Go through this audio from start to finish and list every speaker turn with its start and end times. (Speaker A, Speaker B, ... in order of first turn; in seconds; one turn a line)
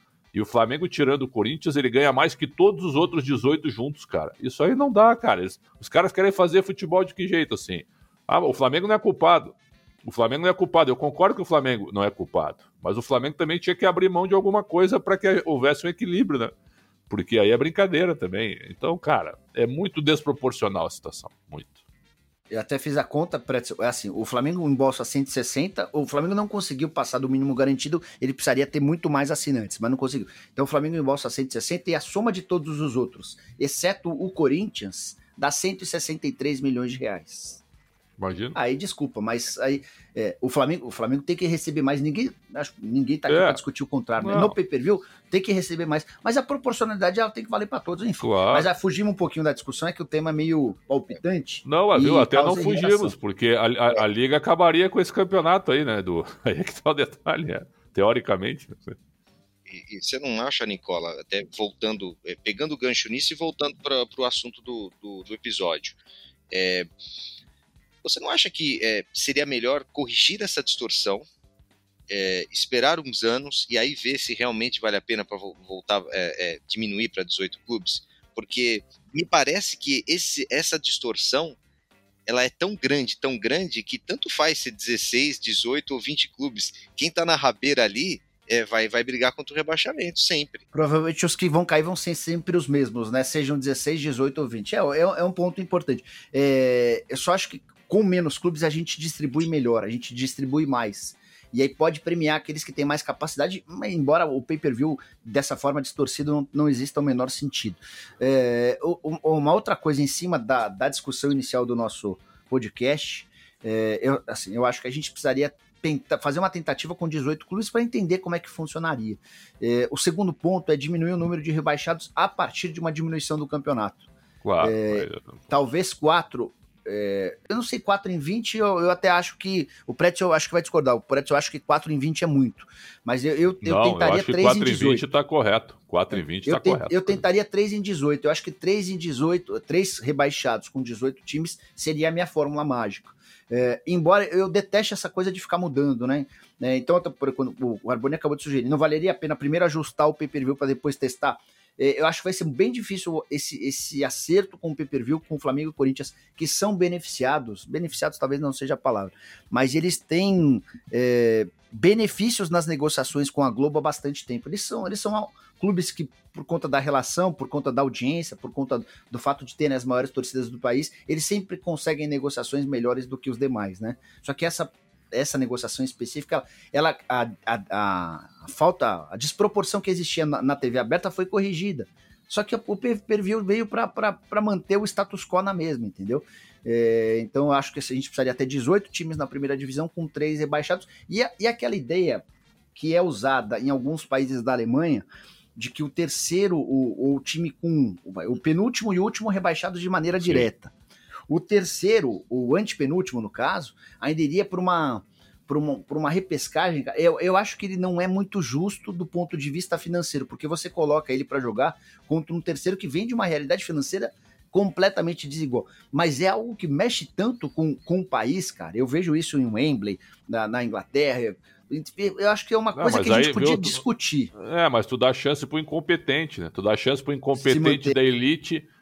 Speaker A: 0.3-16.5
Speaker A: 17.1-21.8
Speaker B: 22.5-37.6
Speaker A: 38.2-38.6
Speaker B: 38.5-53.1
Speaker A: 43.3-43.6
Speaker A: 44.2-44.6
Speaker A: 48.2-48.7
Speaker A: 51.6-59.0
Speaker C: 59.7-66.0
Speaker C: 66.5-66.9
Speaker C: 68.0-71.3
Speaker C: 72.1-81.6
Speaker C: 82.3-90.7
Speaker B: 90.7-124.1
Speaker A: 124.4-125.5
Speaker B: 124.6-135.1
Speaker A: 133.6-137.2
Speaker B: 136.1-200.7
Speaker A: 200.2-200.5
Speaker B: 201.3-224.3
Speaker A: 222.8-223.8
Speaker A: 224.3-228.7
Speaker B: 227.4-228.0